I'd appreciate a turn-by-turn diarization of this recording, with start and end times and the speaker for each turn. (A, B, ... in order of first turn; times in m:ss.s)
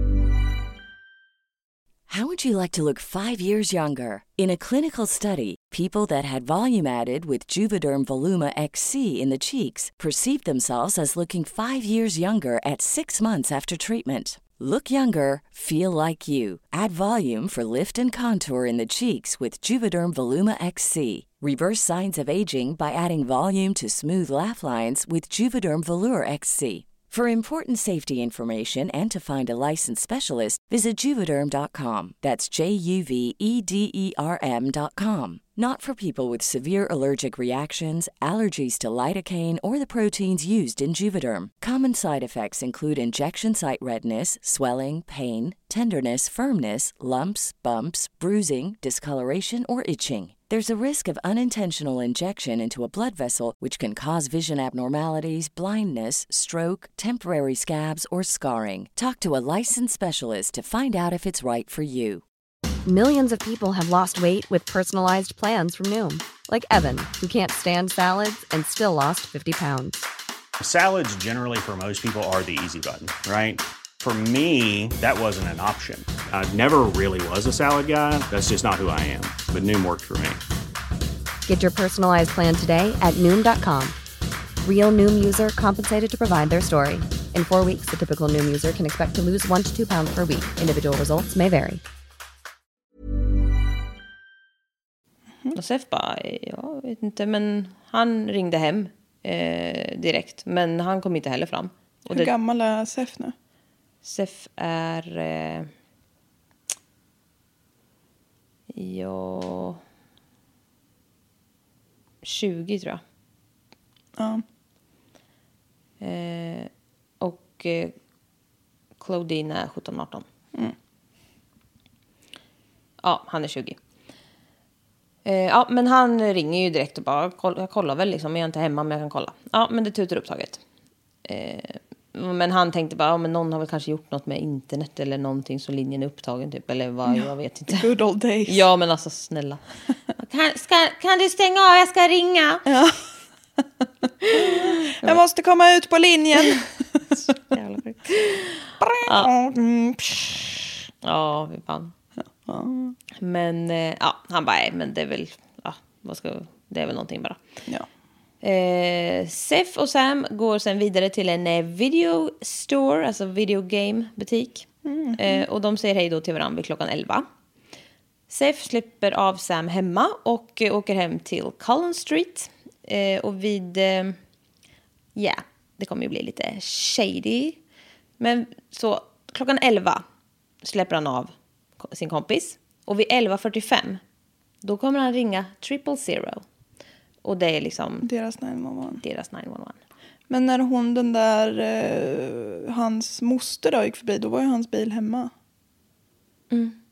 0:02.1-1:02.2 A
1:02.8-1:10.0 B
1:10.6-1:20.4 C
1:21.4-1:24.0 B
1:24.6-1:31.8 B
1:35.5-1:42.3 D
1:42.1-1:43.3 E
1:44.0-1:45.7 D
1:48.7-1:49.8 D
1:52.2-1:53.0 D
1:54.2-1:54.4 E
1:56.0-1:57.9 D
1:59.0-2:00.2 D
2:03.0-2:03.8 D
2:05.2-2:10.6 D
2:11.2-2:17.9 D
2:17.7-2:18.6 E
2:18.5-2:19.6 D
2:20.2-2:22.6 D
2:22.7-2:23.0 E
2:24.2-2:25.2 D
2:24.3-2:27.1 E
2:27.2-2:29.3 D
2:28.8-2:30.6 E
2:31.0-2:31.9 D
2:32.4-2:33.0 E
2:33.2-2:37.4 D
2:38.4-2:47.2 D
2:44.8-2:45.4 E
2:48.3-2:54.2 D
2:55.2-2:57.6 D
2:58.2-3:00.0 D
3:00.6-3:04.0 D
3:04.6-3:06.4 D
3:07.2-3:08.1 D
3:08.0-3:09.0 E
3:09.0-3:09.8 D
3:10.3-3:15.3 E
3:16.5-3:16.8 D